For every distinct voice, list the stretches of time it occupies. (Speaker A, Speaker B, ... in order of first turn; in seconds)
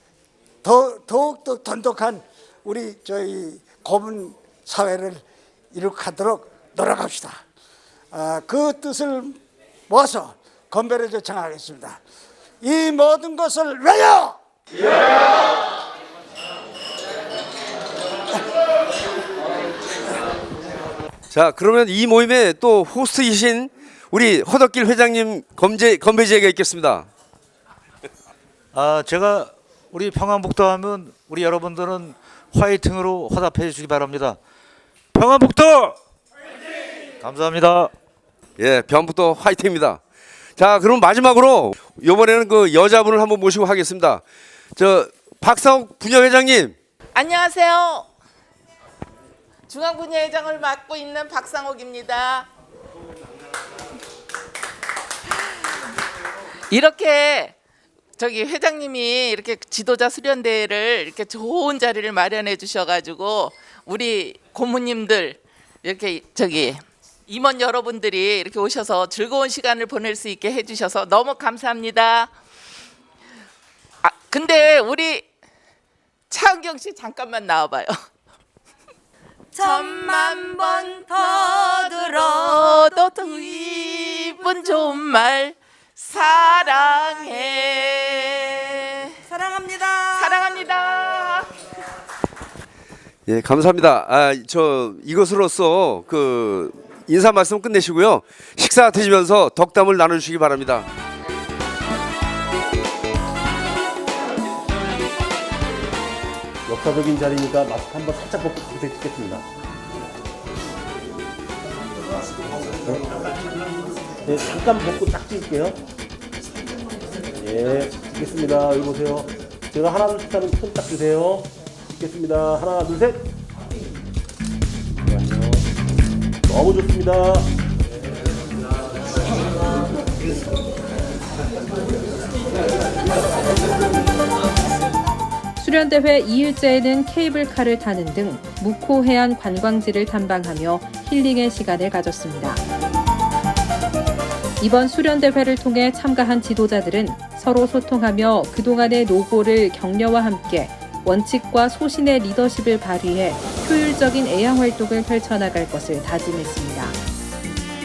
Speaker A: 0.6-7.4, 8.1-12.0, 12.6-14.4
Speaker B: 21.3-27.1, 38.6-40.0, 40.6-44.2, 44.8-46.8, 93.3-100.9
Speaker C: 28.7-34.4, 35.1-36.0, 37.2-37.9
Speaker D: 47.1-48.1, 49.7-52.5, 56.7-57.5, 58.2-72.3, 74.0-75.3, 76.3-78.0, 79.6-89.2, 90.2-91.5
Speaker E: 79.5-83.6, 86.8-87.2, 89.3-90.7
Speaker F: 106.7-109.5, 114.2-115.8, 117.4-123.3, 125.0-125.7, 126.5-127.5
Speaker G: 135.6-142.6, 144.6-156.9